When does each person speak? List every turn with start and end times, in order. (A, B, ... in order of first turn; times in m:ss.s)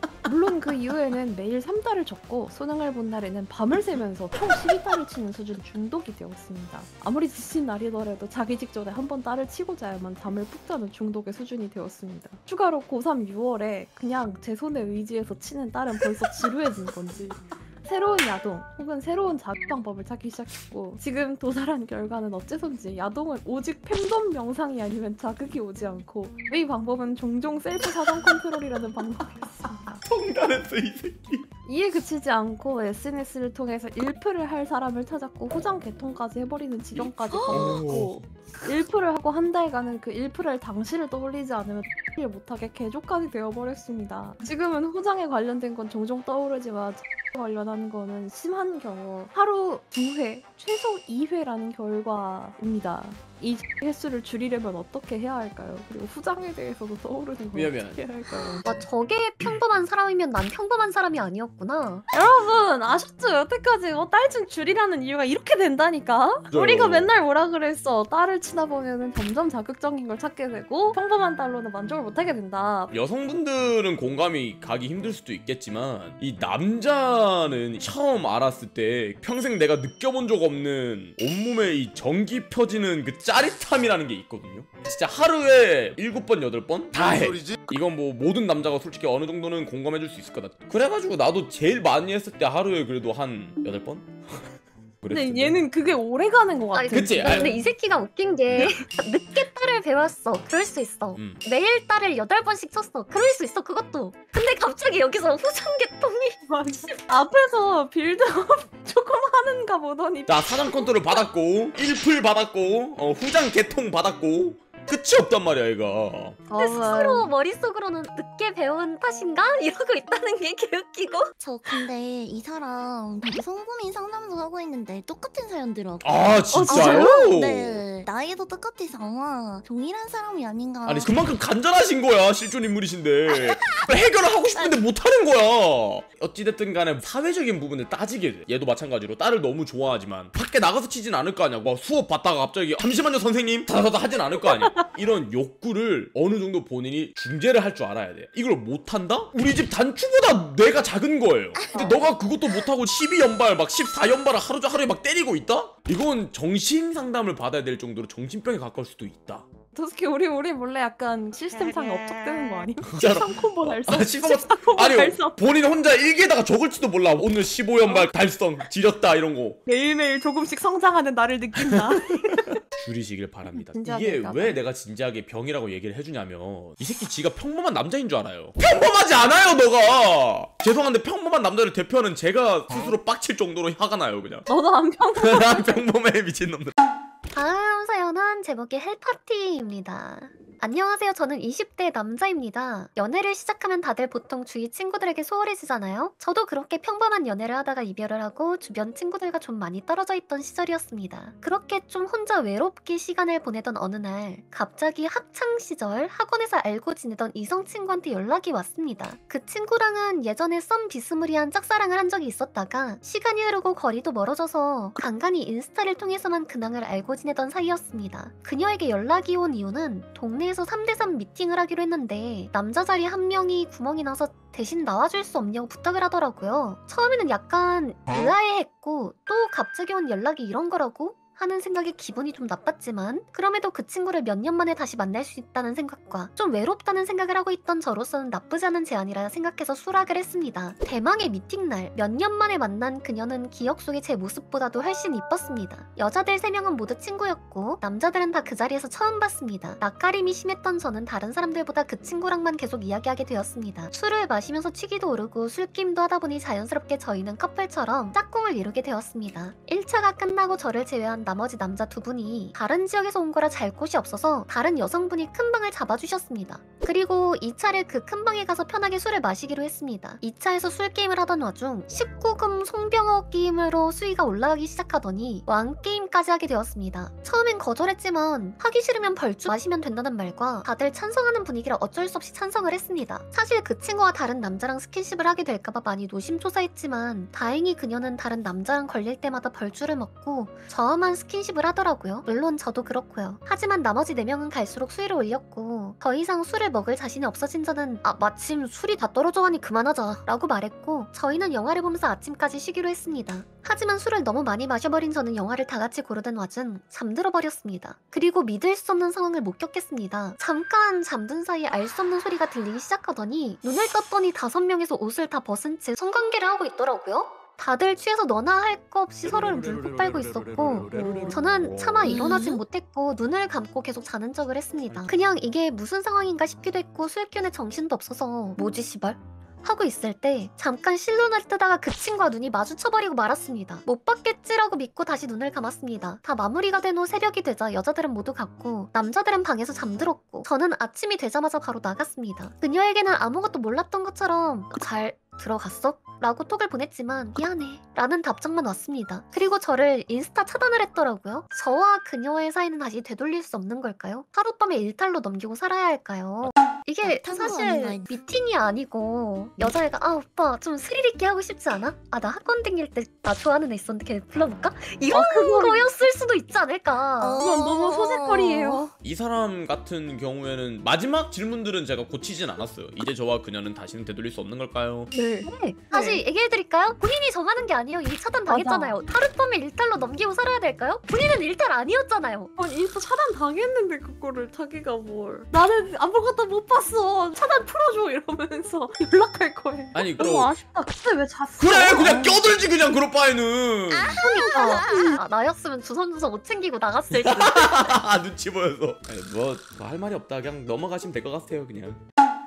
0:00.2-0:30.0 A
0:30.0-0:31.4 B
0:31.7-0:58.8 A
0:36.9-0:38.3 B
0:57.5-0:58.0 B
0:58.6-1:02.1 C
1:02.1-1:12.9 A
1:06.5-1:07.1 B
1:12.9-1:34.5 B
1:35.0-1:35.6 B
1:35.1-1:37.7 A
1:36.7-1:46.4 C
1:36.9-1:37.5 B
1:41.1-1:41.4 B
1:46.4-1:51.2 A
1:50.3-1:56.4 B
1:56.5-1:57.3 A
1:56.6-2:01.8 C
2:01.4-2:11.1 D
2:06.0-2:07.8 B
2:06.5-2:07.2 A
2:10.8-2:39.5 B
2:13.3-2:13.6 D
2:24.4-2:24.9 A
2:31.6-2:32.0 D
2:39.7-2:45.4 A
2:42.8-2:49.6 B
2:47.8-2:48.1 A
2:49.7-2:52.6 A
2:51.6-3:04.5 B
2:53.5-2:54.6 A
3:04.5-3:05.9 A
3:05.2-3:06.7 B
3:07.3-6:07.4 C
5:22.0-5:22.6 D
5:57.0-5:58.2 D
6:05.1-6:05.9 A
6:07.2-6:08.8 D
6:07.4-6:08.9 A
6:09.0-6:15.1 B
6:15.1-6:16.2 A
6:15.4-6:22.5 C
6:18.5-6:19.0 A
6:22.6-6:32.5 A
6:29.9-6:30.5 B
6:31.6-6:34.2 B
6:33.9-6:35.2 D
6:34.2-6:38.0 C
6:34.2-6:35.2 A
6:37.1-6:42.0 B